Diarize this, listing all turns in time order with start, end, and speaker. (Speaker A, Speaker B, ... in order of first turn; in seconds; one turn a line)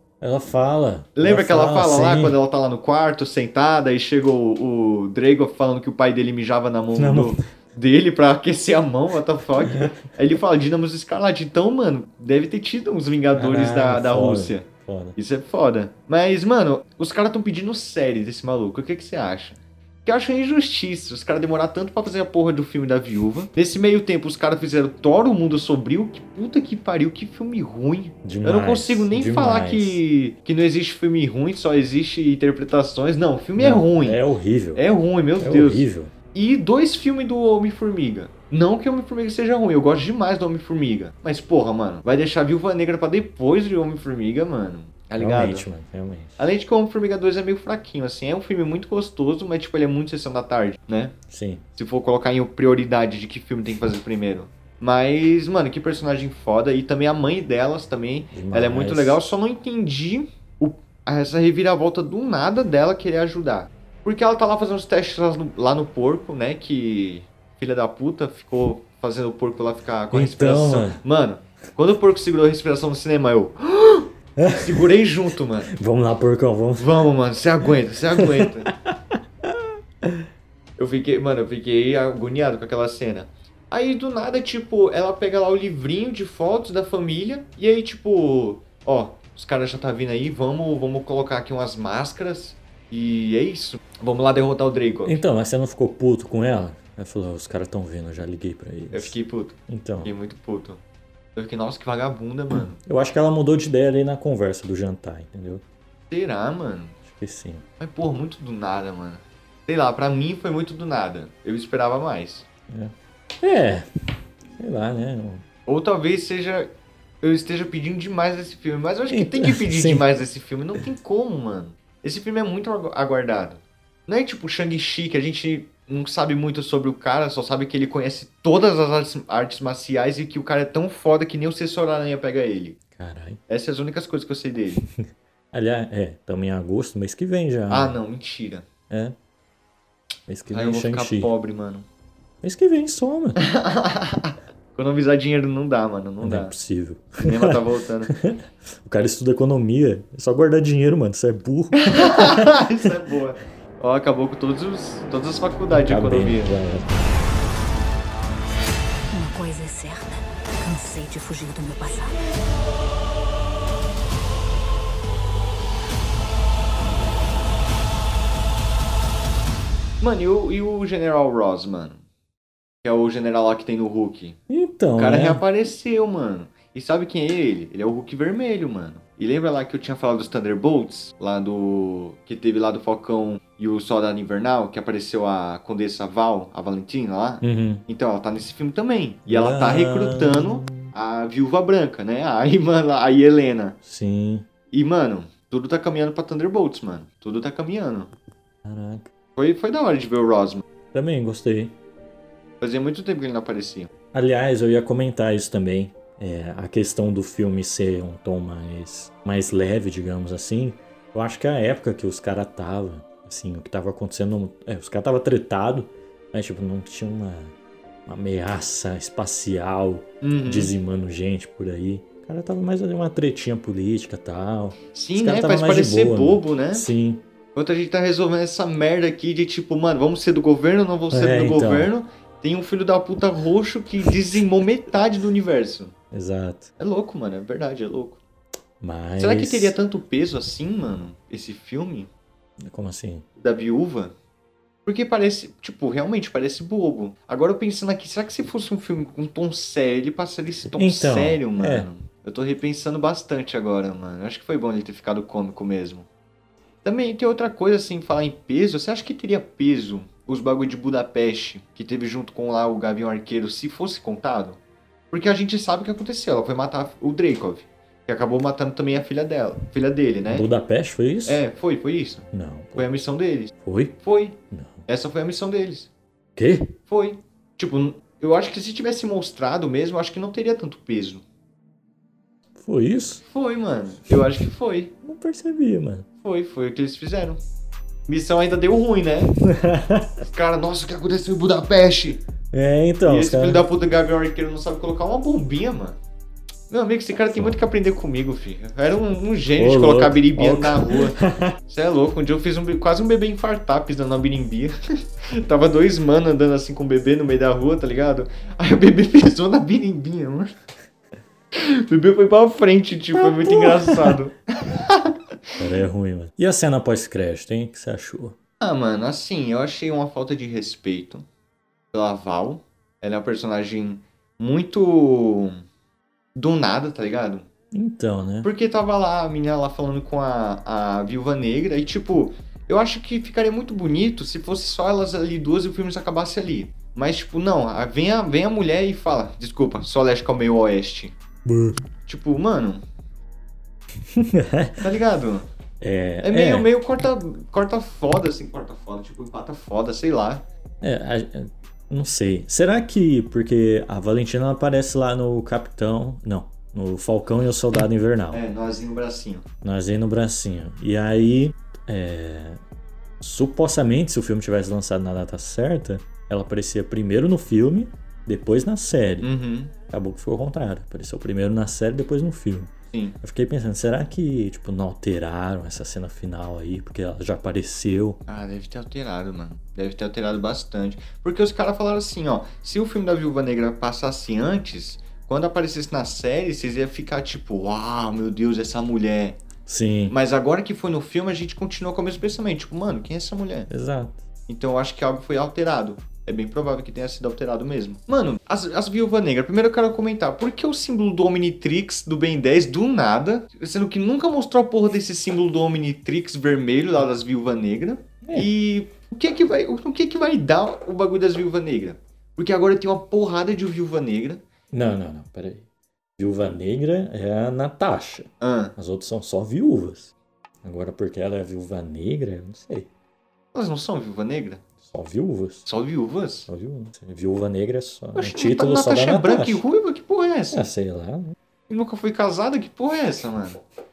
Speaker A: 0.2-2.4
Speaker B: 1.2-34.2
Speaker A: 7.0-7.4
Speaker A: 9.7-9.9
Speaker A: 13.3-15.2
Speaker A: 28.2-30.0
Speaker A: 33.6-34.9
Speaker B: 34.8-45.7
Speaker A: 35.4-36.1
Speaker A: 45.2-46.3
Speaker B: 46.4-51.1
Speaker A: 51.3-51.7
Speaker B: 51.8-75.7
Speaker A: 58.3-59.2
Speaker A: 70.1-71.0
Speaker A: 74.4-74.9
Speaker A: 75.7-77.1
Speaker B: 76.8-78.7
Speaker A: 78.2-80.3
Speaker B: 80.8-95.2
Speaker A: 95.0-99.2
Speaker B: 98.9-100.8
Speaker A: 99.7-100.1
Speaker B: 101.4-102.8
Speaker A: 102.5-105.6
Speaker B: 106.1-107.0
Speaker A: 107.0-107.7
Speaker B: 107.8-112.5
Speaker A: 112.7-113.9
Speaker A: 114.6-115.5
Speaker B: 115.7-116.7
Speaker B: 117.2-132.8
Speaker A: 119.1-120.0
Speaker A: 133.0-133.4
Speaker B: 133.5-134.8
Speaker A: 135.5-138.0
Speaker B: 137.7-138.7
Speaker A: 138.9-139.2
Speaker A: 140.3-141.3
Speaker B: 140.5-141.9
Speaker A: 142.4-143.4
Speaker B: 143.4-146.6
Speaker A: 146.2-152.9
Speaker B: 147.2-148.1
Speaker B: 151.8-156.5
Speaker A: 155.7-157.0
Speaker C: 159.1-162.2
Speaker B: 170.0-172.0
Speaker B: 172.8-174.4
Speaker A: 174.5-175.4
Speaker B: 175.0-193.8
Speaker A: 187.4-187.8
Speaker A: 189.3-190.9
Speaker A: 193.8-194.5
Speaker B: 194.7-198.1
Speaker A: 198.6-199.1
Speaker B: 199.4-200.7
Speaker A: 200.9-201.8
Speaker B: 202.6-203.9
Speaker A: 204.1-217.5
Speaker A: 218.1-227.2
Speaker B: 220.2-220.7
Speaker B: 224.9-226.9
Speaker B: 227.6-235.9
Speaker A: 231.1-231.9
Speaker A: 236.1-236.7
Speaker B: 236.8-238.2
Speaker A: 238.8-239.8
Speaker B: 239.2-242.1
Speaker A: 242.6-243.3
Speaker B: 243.4-244.1
Speaker B: 244.9-256.1
Speaker A: 250.7-251.9
Speaker B: 256.8-264.6
Speaker B: 265.1-270.5
Speaker A: 270.3-271.4
Speaker B: 271.3-275.9
Speaker A: 272.3-272.9
Speaker A: 273.6-274.0
Speaker A: 274.5-274.8
Speaker A: 276.4-276.8
Speaker B: 276.9-281.2
Speaker A: 282.6-283.2
Speaker B: 283.2-284.9
Speaker A: 285.0-286.1
Speaker B: 286.2-287.4
Speaker B: 288.1-289.4
Speaker A: 289.3-290.2
Speaker B: 290.2-292.2
Speaker A: 292.5-293.6
Speaker B: 293.0-296.0
Speaker B: 296.7-310.5
Speaker A: 299.6-301.6
Speaker B: 311.5-315.2
Speaker A: 313.2-314.2
Speaker A: 315.6-318.4
Speaker B: 318.6-321.2
Speaker B: 321.9-325.6
Speaker B: 326.4-327.5
Speaker A: 327.7-328.5
Speaker B: 328.4-341.1
Speaker A: 341.5-341.8
Speaker B: 342.1-342.8
Speaker A: 344.1-344.8
Speaker B: 344.8-345.5
Speaker A: 345.8-346.7
Speaker B: 346.2-350.4
Speaker A: 350.8-358.4
Speaker B: 358.3-359.5
Speaker A: 359.6-362.6
Speaker A: 363.2-369.3
Speaker B: 369.2-369.7
Speaker A: 369.9-378.2
Speaker B: 372.9-373.2
Speaker B: 378.3-389.4
Speaker A: 389.7-390.1
Speaker B: 390.1-393.7
Speaker A: 393.7-394.2
Speaker B: 394.5-414.4
Speaker A: 408.2-408.5
Speaker A: 414.7-415.7
Speaker A: 416.2-422.9
Speaker B: 418.4-418.8
Speaker B: 423.5-424.6
Speaker A: 424.8-425.7
Speaker B: 425.7-426.5
Speaker A: 426.5-429.6
Speaker B: 428.2-430.6
Speaker A: 430.5-431.4
Speaker B: 431.7-433.6